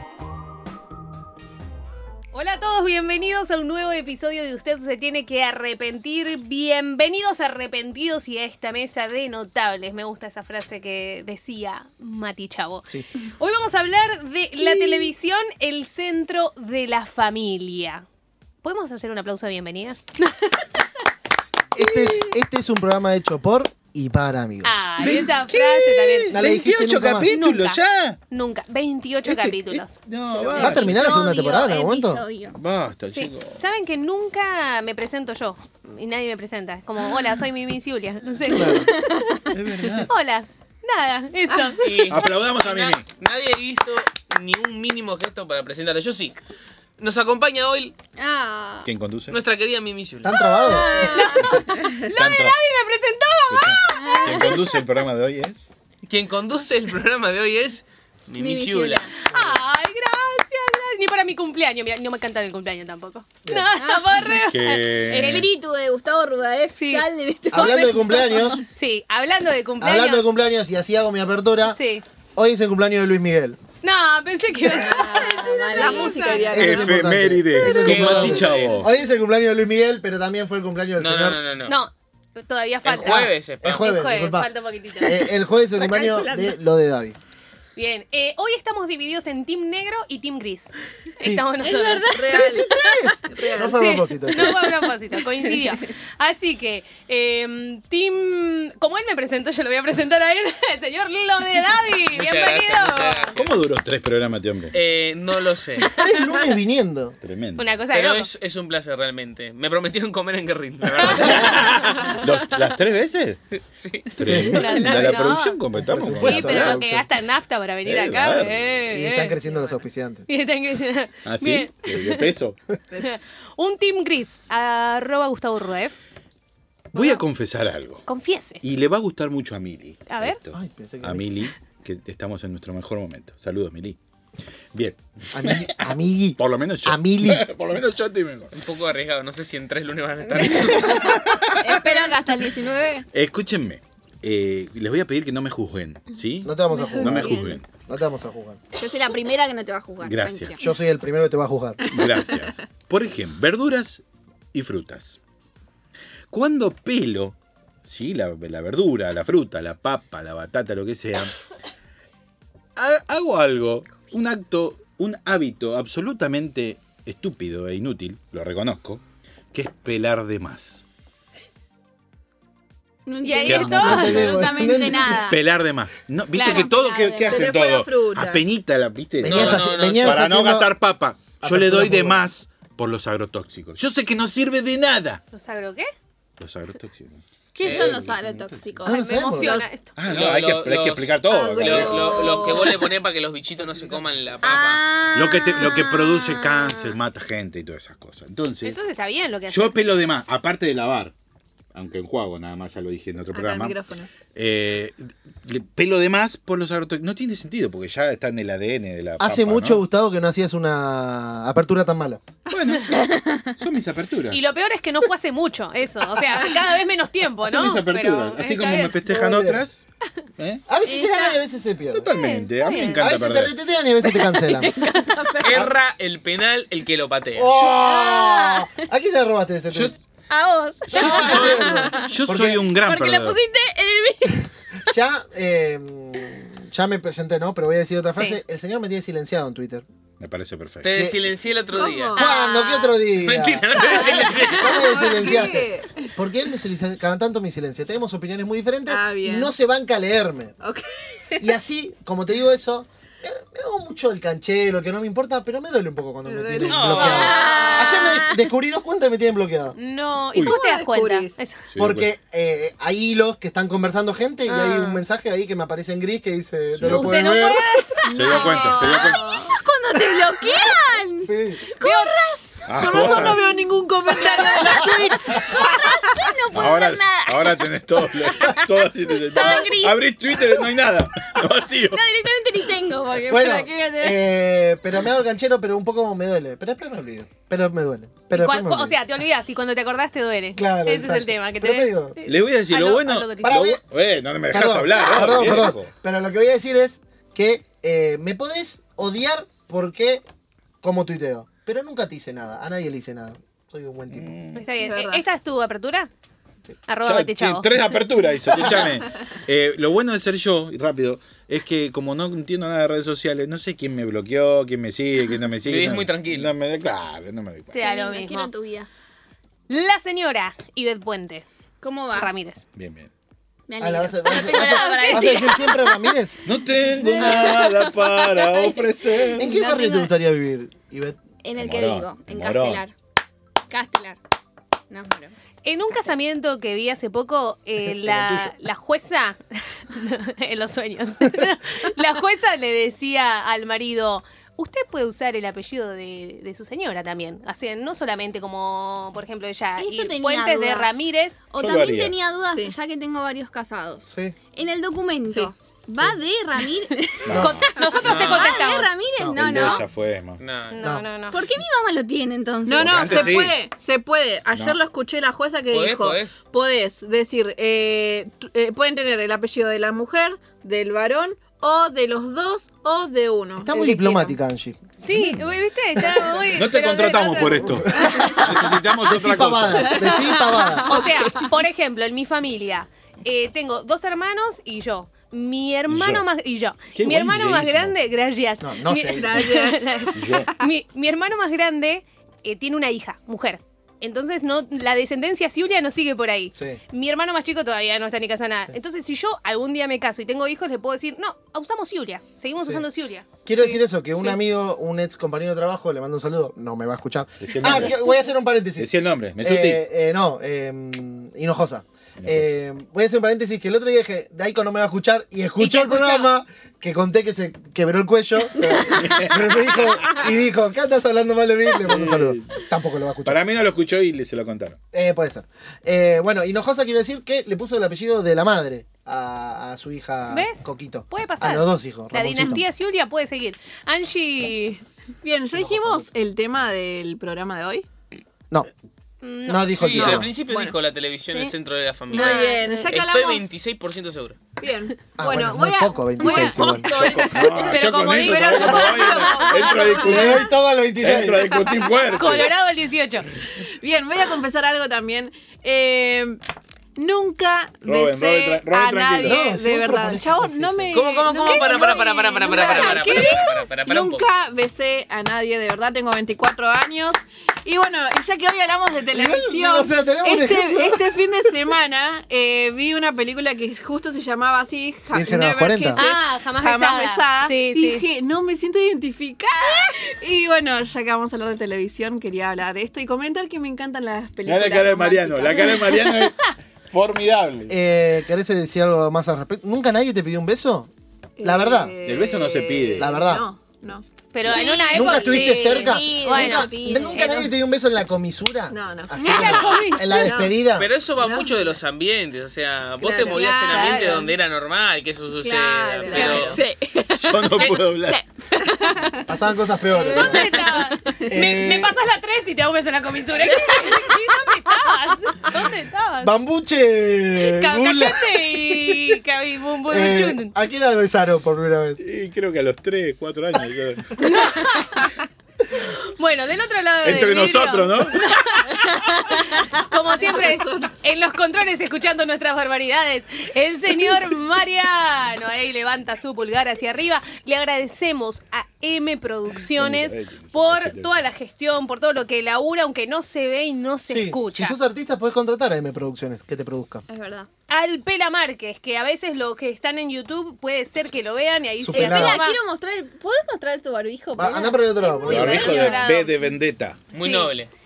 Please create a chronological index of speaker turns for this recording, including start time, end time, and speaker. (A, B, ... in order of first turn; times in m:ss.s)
0:02.3-0:18.0 A
0:14.6-0:15.1 B
0:18.6-0:20.8 A
0:21.8-0:24.8 C
0:24.6-0:26.4 A
0:25.0-0:28.2 B
0:26.3-0:27.4 C
0:27.3-0:30.6 A
0:29.2-0:31.2 B
0:30.6-0:32.2 C
0:30.7-0:32.6 D
0:32.5-0:33.6 B
0:33.1-0:42.1 A
0:38.5-0:38.9 C
0:38.6-0:39.5 D
0:39.5-0:40.1 B
0:41.8-0:46.4 E
0:42.1-0:43.1 B
0:47.0-0:48.0 E
0:48.2-0:48.9 D
0:48.8-0:49.4 B
0:49.3-0:50.3 E
0:50.2-0:51.5 C
0:50.3-0:51.8 D
0:50.6-0:54.6 A
0:52.2-0:52.6 B
0:53.5-0:55.7 B
0:53.9-0:54.8 D
0:56.1-0:59.1 E
0:58.4-0:59.1 D
0:59.2-1:05.5 A
1:03.8-1:04.4 D
1:04.3-1:05.5 B
1:05.1-1:08.6 D
1:06.8-1:07.1 A
1:07.5-1:08.6 C
1:07.6-1:10.3 A
1:09.8-1:11.8 C
1:11.7-1:12.0 A
1:12.4-1:13.6 C
1:13.8-1:16.6 A
1:14.7-1:16.6 D
1:15.7-1:17.1 F
1:16.5-1:21.4 C
1:16.6-1:18.9 B
1:17.7-1:17.9 A
1:17.7-1:17.9 D
1:17.8-1:18.8 E
1:21.0-1:21.8 E
1:21.7-1:25.3 A
1:22.8-1:23.8 E
1:23.0-1:27.2 C
1:25.9-1:26.5 A
1:27.8-1:32.6 A
1:31.7-1:32.7 F
1:32.3-1:34.6 C
1:33.3-1:33.8 F
1:33.4-1:43.3 A
1:35.4-1:35.7 F
1:42.1-1:43.6 E
1:43.4-1:44.8 B
1:44.7-1:45.9 E
1:45.8-1:47.2 C
1:47.2-1:47.7 B
1:47.6-1:48.3 A
1:47.9-1:51.7 E
1:51.0-1:53.4 B
1:51.0-1:52.1 A
1:53.6-1:54.4 E
1:54.2-1:55.1 C
1:54.2-1:56.8 B
1:54.3-1:55.6 A
1:55.7-1:57.1 C
1:56.2-1:59.4 A
1:57.9-1:58.8 B
1:58.9-2:00.3 C
2:00.3-2:02.3 A
2:01.2-2:02.6 B
2:02.9-2:03.2 F
2:03.0-2:06.0 A
2:06.9-2:08.0 B
2:08.1-2:08.6 A
2:08.6-2:14.0 B
2:10.1-2:10.4 A
2:10.5-2:11.3 C
2:14.7-2:15.8 B
2:15.3-2:17.5 C
2:16.4-2:18.5 B
2:18.5-2:21.2 E
2:20.3-2:23.1 D
2:20.4-2:22.1 B
2:23.1-2:27.7 B
2:26.4-2:28.6 C
2:26.9-2:27.6 F
2:28.8-2:30.7 D
2:30.0-2:30.6 B
2:30.6-2:31.9 C
2:31.8-2:35.2 B
2:36.3-2:41.3 B
2:42.8-2:49.0 B
2:49.5-2:50.8 B
2:53.1-2:55.4 D
2:53.2-2:54.4 A
2:53.4-2:54.5 B
2:53.7-2:55.3 C
2:55.2-3:05.2 B
2:56.3-2:56.7 A
2:56.4-2:57.6 D
2:57.2-2:58.4 F
2:59.2-3:00.7 C
2:59.2-3:00.3 E
3:01.4-3:02.3 C
3:05.3-3:05.9 A
3:06.4-3:08.7 B
3:07.6-3:09.6 D
3:07.6-3:07.9 A
3:07.6-3:07.9 E
3:08.8-3:09.7 C
3:08.8-3:09.9 A
3:09.4-3:09.6 F
3:10.0-3:12.4 B
3:10.0-3:14.8 E
3:11.2-3:12.8 F
3:12.1-3:12.7 D
3:14.4-3:17.0 D
3:15.1-3:18.8 B
3:18.6-3:20.0 A
3:19.5-3:21.1 B
3:21.7-3:23.8 B
3:23.3-3:24.1 F
3:24.3-3:29.8 B
3:29.2-3:32.2 C
3:32.5-3:34.4 B
3:32.9-3:33.5 D
3:34.3-3:39.0 A
3:37.4-3:39.8 B
3:39.1-3:39.6 C
3:40.4-3:40.6 B
3:40.7-3:42.1 C
3:40.8-3:41.4 D
3:41.9-3:43.5 B
3:42.1-3:43.1 A
3:43.0-3:44.8 C
3:44.0-3:45.7 D
3:45.4-3:47.5 E
3:47.4-3:49.9 C
3:47.6-3:48.7 D
3:50.3-3:52.1 D
3:50.9-3:53.4 B
3:50.9-3:52.6 C
3:52.7-3:54.9 D
3:54.9-3:59.8 C
3:58.1-3:58.4 A
4:00.2-4:00.9 B
4:00.8-4:02.3 E
4:01.7-4:02.3 F
4:02.2-4:10.6 C
4:02.2-4:03.0 D
4:03.2-4:05.2 E
4:04.7-4:06.1 F
4:08.9-4:09.5 F
4:10.6-4:11.5 F
4:11.4-4:19.8 C
4:16.2-4:17.9 F
4:16.6-4:17.4 E
4:16.7-4:18.0 A
4:17.2-4:18.3 D
4:19.8-4:21.6 A
4:20.4-4:21.4 F
4:21.7-4:22.1 B
4:21.8-4:27.6 C
4:24.5-4:24.9 A
4:26.8-4:27.2 B
4:26.8-4:29.0 A
4:28.0-4:33.1 D
4:28.1-4:29.4 B
4:31.2-4:31.6 C
4:31.8-4:32.2 A
4:32.7-4:33.4 B
4:32.7-4:36.0 F
4:34.1-4:44.3 D
4:36.5-4:42.0 B
4:39.4-4:39.7 A
4:43.3-4:49.0 C
4:48.3-4:53.7 A
4:50.6-4:52.2 C
4:52.2-4:55.9 B
4:53.4-4:53.8 C
4:54.5-5:00.2 C
5:00.8-5:04.3 C
5:04.1-5:04.7 B
5:04.6-5:06.1 A
5:04.7-5:05.2 F
5:06.9-5:07.8 A
5:07.0-5:17.8 B
5:15.6-5:16.5 E
5:17.7-5:18.5 A
5:17.8-5:18.9 D
5:19.7-5:21.5 A
5:21.8-5:22.3 D
5:22.2-5:22.6 A
5:22.8-5:23.1 B
5:23.7-5:26.2 D
5:23.8-5:26.4 C
5:24.3-5:25.6 A
5:26.4-5:29.5 B
5:27.1-5:27.9 D
5:27.2-5:27.6 A
5:29.4-5:30.1 D
5:29.4-5:31.2 C
5:31.4-5:32.9 D
5:31.6-5:32.8 B
5:33.7-5:34.2 D
5:34.9-5:35.3 D
5:35.6-5:51.4 A
5:37.8-5:38.5 C
5:49.8-5:50.9 D
5:51.5-5:59.9 D
5:51.6-5:52.2 B
5:52.5-5:52.8 F
5:54.1-5:54.4 C
5:55.3-5:55.5 F
5:57.2-5:58.1 B
5:57.3-5:57.7 C
5:57.4-5:58.9 A
5:58.0-5:58.6 E
5:59.2-5:59.8 C
5:59.3-6:00.4 B
6:00.4-6:00.8 E
6:00.7-6:01.4 A
6:01.3-6:03.4 D
6:02.7-6:14.4 F
6:02.8-6:03.6 B
6:05.7-6:06.4 E
6:13.6-6:14.8 C
6:15.0-6:18.3 A
6:15.1-6:15.4 B
6:16.5-6:20.1 B
6:17.8-6:20.9 C
6:20.8-6:44.4 A
6:20.9-6:21.1 F
6:25.9-6:26.3 B
6:26.9-6:27.9 B
6:28.6-6:29.4 C
6:29.1-6:30.5 F
6:30.2-6:30.5 B
6:36.5-6:36.8 C
6:42.6-6:42.8 C
6:43.4-7:03.4 C
6:47.4-6:48.0 B
6:48.8-6:49.8 B
6:52.2-6:52.5 B
6:55.6-6:56.3 A
6:58.6-6:59.2 D
6:58.8-7:00.2 B
7:01.8-7:02.6 B
7:03.2-7:04.8 B
7:04.9-7:12.6 C
7:10.3-7:14.8 A
7:15.2-7:17.9 F
7:15.6-7:16.1 C
7:19.2-7:20.1 A
7:19.5-7:20.3 C
7:19.8-7:24.4 E
7:20.0-7:20.8 F
7:22.1-7:23.5 F
7:22.1-7:22.8 A
7:24.6-7:30.4 F
7:25.2-7:26.9 C
7:26.2-7:26.5 A
7:26.7-7:27.8 E
7:26.9-7:30.5 B
7:27.6-7:30.0 A
7:30.0-7:31.7 C
7:31.0-7:32.5 B
7:31.6-7:32.2 F
7:32.1-7:33.3 A
7:33.8-7:36.4 F
7:37.0-8:06.2 F
7:37.8-7:39.4 B
7:39.2-7:41.0 C
7:40.9-7:44.2 E
7:41.3-7:43.5 A
7:49.1-7:51.5 C
7:55.1-7:56.0 C
7:56.0-7:58.0 A
8:04.4-8:07.8 B
8:05.7-8:06.5 A
8:07.7-8:10.9 C
8:11.4-8:14.1 F
8:11.4-8:11.9 C
8:12.0-8:13.2 B
8:13.0-8:13.5 C
8:14.3-8:17.5 A
8:14.4-8:17.5 D
8:14.5-8:20.9 C
8:18.7-8:20.6 F
8:19.2-8:20.3 A
8:20.8-8:26.6 E
8:21.2-8:21.7 F
8:23.0-8:24.3 F
8:23.3-8:24.3 A
8:25.4-8:26.6 F
8:26.1-8:26.6 A
8:26.1-8:29.1 D
8:27.1-8:28.2 B
8:29.3-8:30.5 C
8:30.0-8:36.3 A
8:31.3-8:32.0 C
8:36.2-8:39.1 C
8:37.4-8:40.5 A
8:39.9-8:42.0 C
8:42.0-8:44.2 B
8:44.2-8:45.1 A
8:45.8-9:04.8 A
8:47.0-8:48.7 B
8:50.1-8:50.9 F
8:59.6-9:01.1 B
9:04.1-9:07.0 C
9:07.1-9:07.5 D
9:07.7-9:12.6 A
9:11.8-9:12.4 C
9:11.9-9:16.1 D
9:14.4-9:15.9 C
9:15.2-9:17.0 B
9:15.3-9:16.4 A
9:17.1-9:17.7 E
9:17.2-9:17.5 A